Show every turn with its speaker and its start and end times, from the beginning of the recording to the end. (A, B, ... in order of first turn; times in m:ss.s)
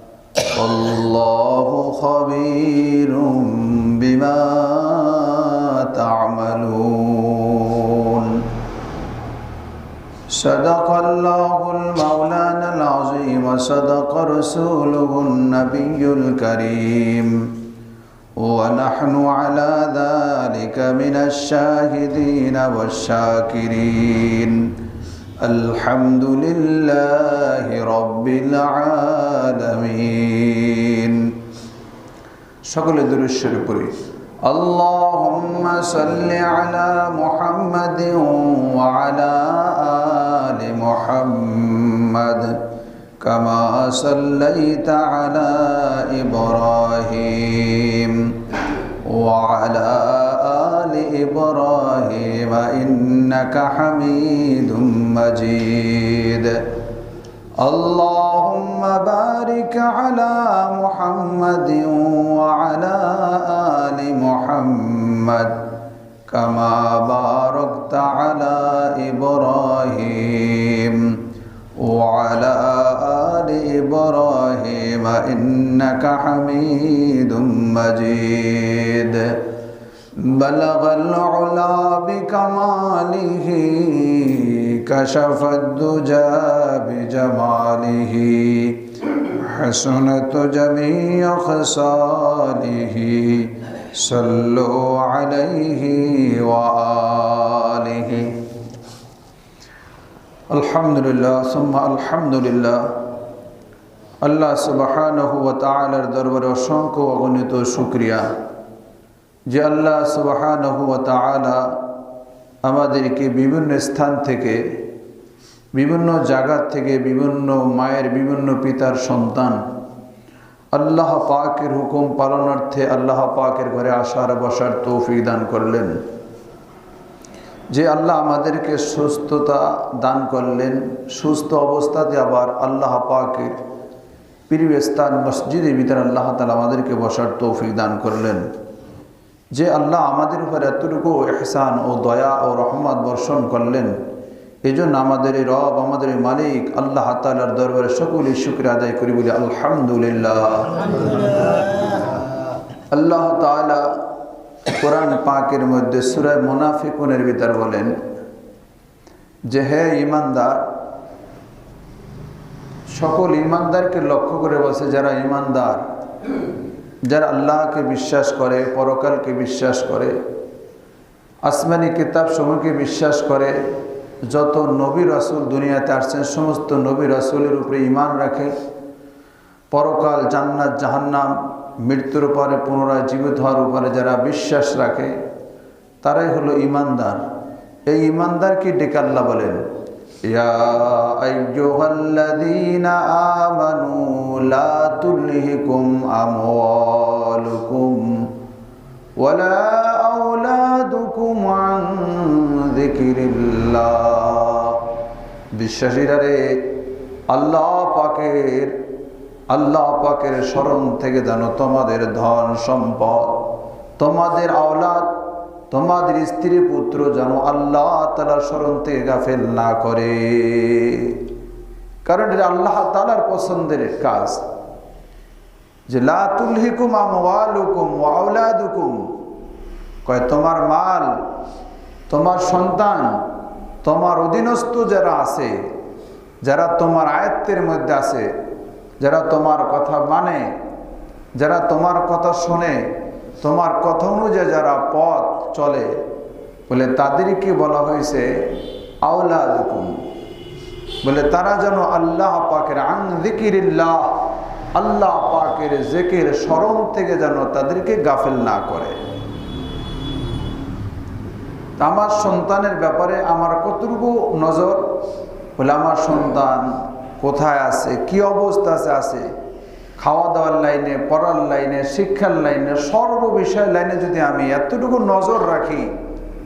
0:00.5-0:08.4 A
0:10.3-0:17.5 A
0:18.4-0:24.7 A
0:25.4-0:31.3 A
0:32.6-0:33.9 A
0:34.4-0:42.6 A
0:43.2-0:48.3 A
0:49.0-0:56.7 A
0:57.6-1:05.7 A
1:06.3-1:11.2 A
1:11.8-1:19.5 A
1:20.2-1:38.4 A
1:40.5-1:43.0 A
1:44.2-1:48.2 A
1:49.5-1:51.8 A
1:52.6-1:54.6 A
1:55.7-1:59.6 A
2:00.7-2:06.0 A
2:07.7-2:13.6 A
2:14.5-2:18.5 A
2:19.5-2:24.0 A
2:24.6-2:30.8 A
2:32.9-2:34.0 A
2:34.8-2:38.0 A
2:39.5-2:40.6 A
2:42.9-2:45.8 A
2:47.0-2:50.2 A
2:51.4-2:53.6 A
2:54.2-2:58.5 A
2:59.7-3:05.1 A
3:06.0-3:07.2 A
3:07.9-3:09.6 A
3:10.2-3:18.3 A
3:19.2-3:24.9 A
3:25.5-3:28.8 A
3:29.5-3:35.2 A
3:35.7-3:41.2 A
3:42.0-3:44.4 A
3:45.9-3:49.0 A
3:50.0-3:51.1 A
3:52.1-3:53.2 A
3:53.8-3:55.5 A
3:56.4-3:58.3 A
3:59.0-4:00.5 A
4:01.4-4:02.9 A
4:03.4-4:06.0 A
4:06.7-4:10.0 A
4:11.0-4:19.0 A
4:21.8-4:25.0 A
4:25.6-4:29.2 A
4:30.0-4:35.9 A